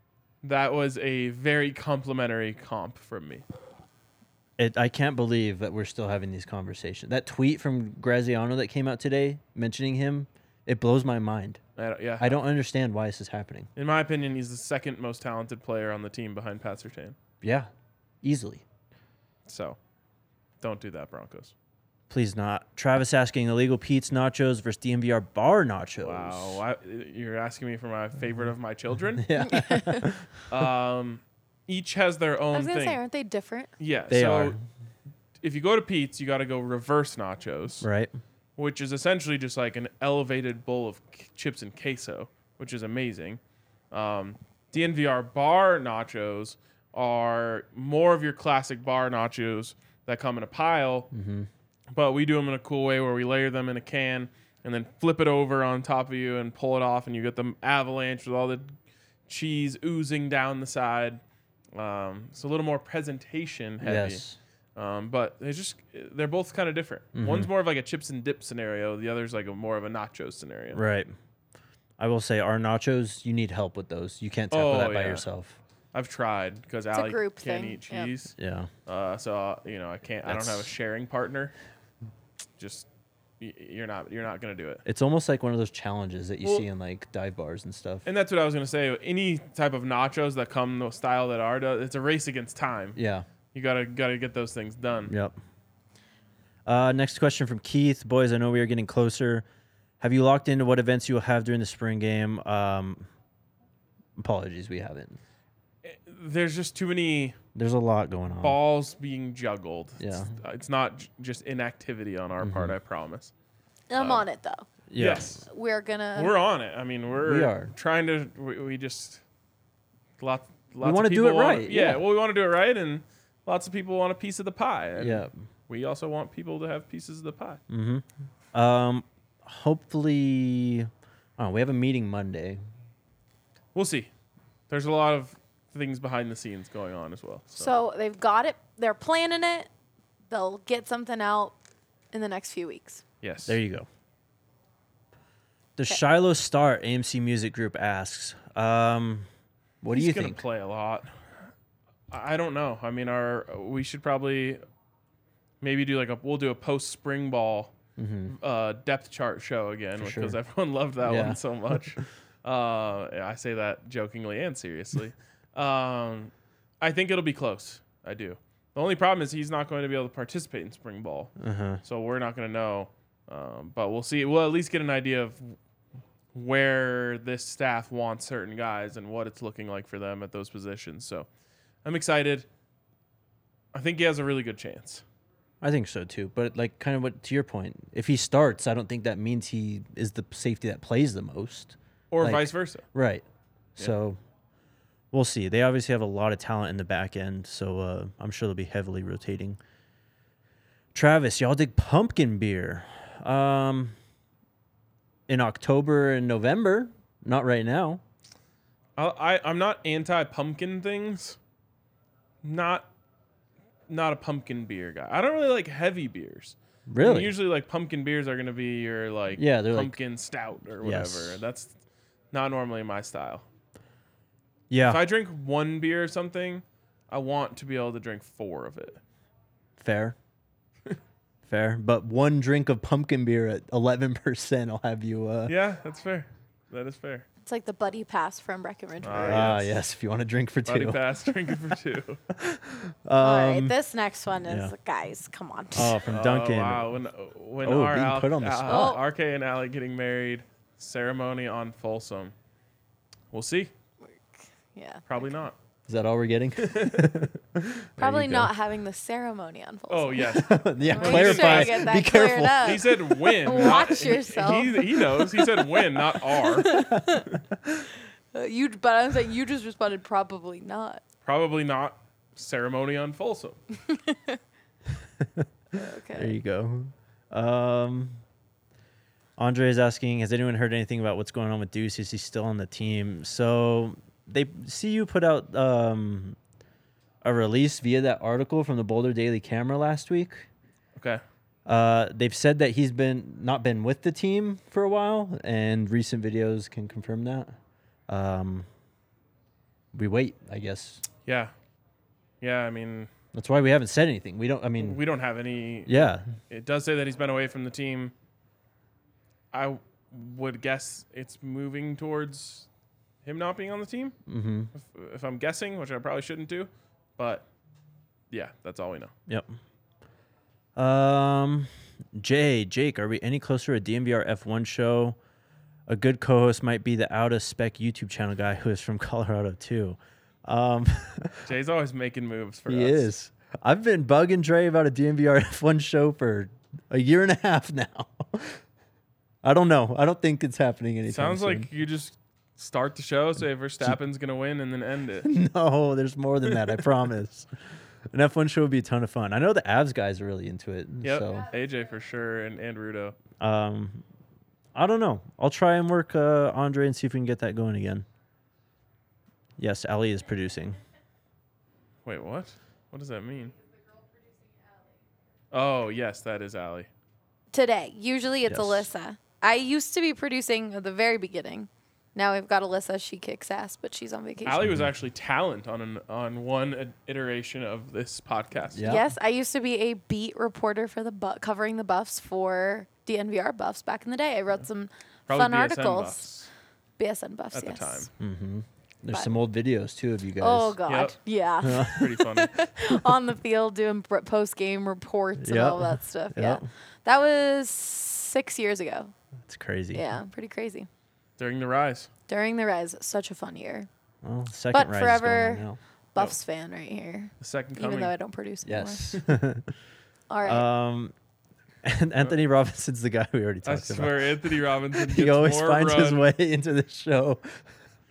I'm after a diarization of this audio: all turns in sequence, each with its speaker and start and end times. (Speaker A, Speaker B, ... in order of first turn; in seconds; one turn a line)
Speaker A: 0.4-3.4
Speaker B: 4.6-11.6
Speaker A: 11.8-12.4
Speaker B: 12.2-13.7
Speaker A: 13.8-17.1
Speaker B: 17.4-17.7
Speaker B: 18.2-18.6
Speaker A: 19.4-19.8
Speaker A: 20.6-21.5
Speaker B: 22.1-26.6
Speaker A: 26.0-29.3
Speaker B: 29.2-30.3
Speaker C: 29.4-30.1
Speaker A: 30.5-33.0
Speaker C: 32.5-33.7
Speaker A: 33.8-34.6
Speaker B: 34.1-34.6
Speaker A: 35.4-37.9
Speaker B: 37.8-38.1
Speaker A: 38.6-43.4
Speaker A: 43.9-51.1
Speaker B: 51.1-51.5
Speaker A: 51.9-61.2
Speaker A: 61.7-64.2
Speaker B: 63.8-64.4
Speaker A: 64.8-70.8
Speaker B: 67.1-67.5
Speaker B: 70.7-71.1
Speaker B: 72.0-75.6
Speaker A: 74.5-75.2
Speaker A: 75.9-78.3
Speaker C: 76.9-78.1
Speaker B: 78.4-78.7
Speaker A: 78.8-81.5
Speaker B: 80.2-80.7
Speaker A: 82.6-82.9
Speaker A: 83.4-84.8
Speaker B: 84.8-88.0
Speaker A: 88.0-93.0
Speaker B: 93.0-93.3
Speaker A: 93.5-95.1
Speaker B: 95.1-95.3
Speaker B: 96.7-99.4
Speaker B: 100.0-103.1
Speaker B: 104.2-105.2
Speaker A: 105.8-107.4
Speaker B: 107.5-108.6
Speaker A: 108.4-113.3
Speaker B: 110.0-110.3
Speaker B: 112.4-112.7
Speaker C: 113.9-114.7
Speaker A: 114.0-114.2
Speaker B: 114.9-115.4
Speaker A: 115.0-115.4
Speaker C: 115.5-116.3
Speaker A: 116.1-119.2
Speaker B: 117.2-117.7
Speaker A: 120.2-127.6
Speaker B: 120.8-122.0
Speaker B: 125.0-125.3
Speaker B: 127.7-132.6
Speaker A: 133.7-134.1
Speaker A: 134.7-137.7
Speaker C: 137.5-139.7
Speaker C: 140.3-141.5
Speaker C: 142.1-143.0
Speaker A: 143.2-143.6
Speaker B: 143.5-143.9
Speaker B: 145.8-149.3
Speaker B: 149.8-150.4
Speaker A: 149.9-151.1
Speaker A: 152.1-154.6
Speaker A: 155.6-157.7
Speaker B: 158.0-158.3
Speaker A: 158.3-171.3
Speaker B: 160.0-160.4
Speaker B: 161.0-161.4
Speaker B: 171.4-171.8
Speaker A: 171.8-175.6
Speaker A: 176.3-181.3
Speaker A: 181.8-182.5
Speaker A: 183.7-185.0
Speaker B: 185.6-193.2
Speaker A: 192.1-192.8
Speaker B: 193.8-194.2
Speaker B: 195.1-199.6
Speaker B: 200.9-203.9
Speaker B: 205.3-208.0
Speaker A: 209.0-211.4
Speaker A: 212.4-212.9
Speaker A: 213.9-221.8
Speaker B: 216.9-217.3
Speaker B: 219.3-220.0
Speaker B: 220.8-221.4
Speaker A: 222.3-223.4
Speaker B: 224.7-225.0
Speaker A: 224.8-229.0
Speaker B: 229.8-230.2
Speaker B: 231.4-235.5
Speaker A: 235.5-237.3
Speaker C: 237.4-239.5
Speaker A: 239.0-239.7
Speaker B: 239.2-241.5
Speaker A: 240.7-242.2
Speaker B: 242.3-243.8
Speaker C: 243.2-246.0
Speaker B: 244.4-244.7
Speaker B: 245.7-246.9
Speaker A: 246.1-252.3
Speaker B: 247.6-248.9
Speaker C: 248.7-249.0
Speaker A: 253.3-253.7
Speaker C: 254.3-255.0
Speaker A: 255.1-255.5
Speaker B: 255.9-258.5
Speaker A: 256.6-257.2
Speaker C: 258.0-265.4
Speaker A: 259.9-262.0
Speaker B: 260.3-262.9
Speaker A: 262.6-266.7
Speaker C: 266.4-267.3
Speaker B: 266.7-267.9
Speaker C: 268.3-271.0
Speaker A: 271.2-273.6
Speaker C: 273.9-274.4
Speaker B: 275.2-275.5
Speaker C: 275.7-276.3
Speaker B: 276.1-278.2
Speaker B: 279.4-286.4
Speaker B: 287.2-290.5
Speaker A: 291.0-291.2
Speaker B: 291.6-297.5
Speaker B: 298.1-298.7
Speaker B: 299.9-301.0
Speaker A: 301.2-301.5
Speaker A: 302.4-303.1
Speaker B: 303.3-305.0
Speaker A: 304.8-308.1
Speaker B: 305.9-306.2
Speaker A: 309.5-312.7
Speaker A: 313.2-314.1
Speaker B: 314.3-314.7
Speaker A: 314.7-317.4
Speaker A: 318.3-319.1
Speaker B: 319.3-319.5
Speaker B: 320.8-325.2
Speaker B: 325.9-331.4
Speaker A: 331.4-333.1
Speaker B: 332.7-338.6
Speaker B: 339.4-341.7
Speaker A: 341.1-345.3
Speaker B: 345.2-347.5
Speaker B: 348.1-351.4
Speaker A: 351.0-353.1
Speaker B: 353.4-354.0
Speaker B: 354.7-358.1
Speaker B: 359.6-360.8
Speaker A: 362.0-363.5
Speaker C: 363.8-364.9
Speaker A: 365.5-366.9
Speaker C: 367.5-374.6
Speaker B: 368.4-368.9
Speaker A: 374.4-379.0
Speaker B: 374.6-374.9
Speaker B: 378.7-379.1
Speaker C: 378.8-386.2
Speaker A: 385.3-386.5
Speaker C: 387.0-388.1
Speaker A: 387.5-388.1
Speaker B: 388.2-390.8
Speaker C: 390.4-399.1
Speaker A: 390.9-391.2
Speaker B: 391.6-392.2
Speaker A: 391.7-392.5
Speaker B: 395.4-396.6
Speaker B: 399.4-400.0
Speaker C: 399.9-400.9
Speaker A: 401.4-402.1
Speaker C: 402.3-403.9
Speaker B: 404.2-405.8
Speaker C: 404.7-409.0
Speaker A: 407.4-408.1
Speaker B: 408.6-409.7
Speaker C: 410.3-410.6
Speaker B: 410.4-411.1
Speaker B: 411.8-417.6
Speaker A: 413.6-416.2